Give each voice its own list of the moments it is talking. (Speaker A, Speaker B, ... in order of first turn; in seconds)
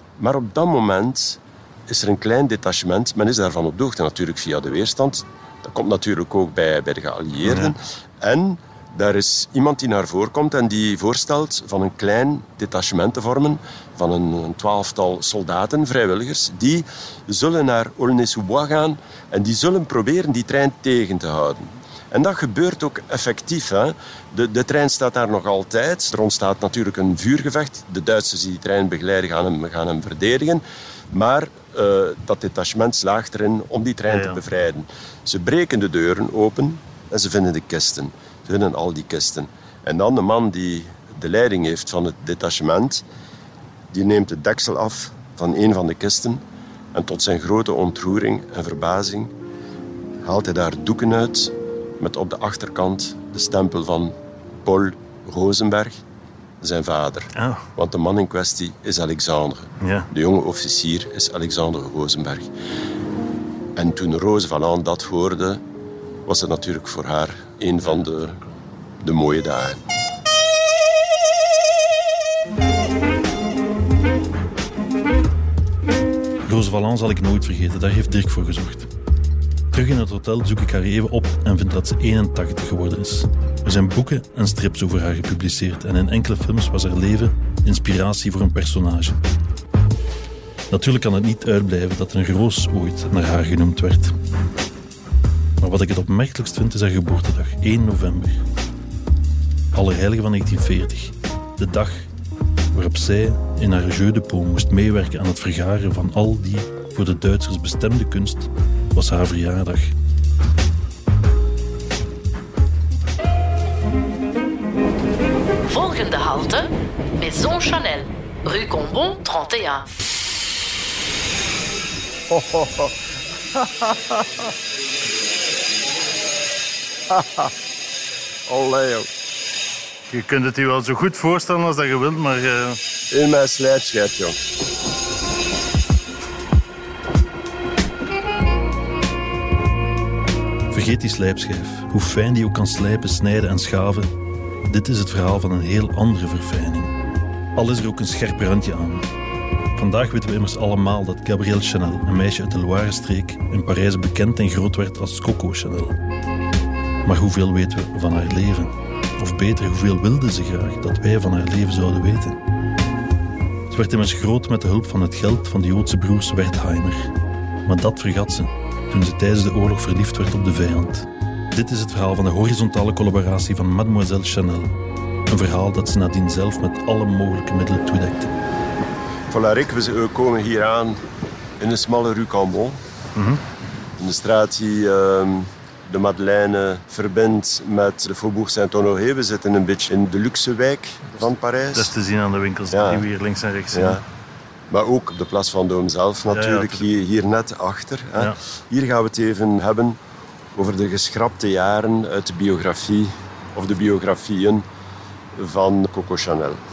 Speaker A: 0.2-43.0, 43.9-46.4, 46.9-49.3, 50.2-56.0, 56.6-62.5, 63.8-65.6, 66.2-68.4, 69.0-69.8, 122.3-123.0, 123.5-124.4, 127.1-127.5, 128.5-129.1, 133.1-134.4, 179.3-181.0, 181.6-182.8, 184.0-191.9, 192.7-193.1, 193.7-194.0, 194.7-200.0, 200.5-204.7, 205.3-206.6
Speaker B: 7.5-7.7, 34.1-34.4, 57.4-57.7, 59.8-60.1, 67.8-68.5, 76.5-78.9, 79.7-89.2, 90.7-94.2, 95.6-98.4, 99.7-102.1, 102.7-109.9, 130.1-132.8, 140.7-144.1, 144.7-146.9, 147.6-149.1, 149.8-156.0, 157.1-162.4, 163.7-167.1, 167.7-174.7, 175.3-178.3, 183.2-183.4, 191.7-194.0, 196.3-196.8
Speaker C: 115.7-119.9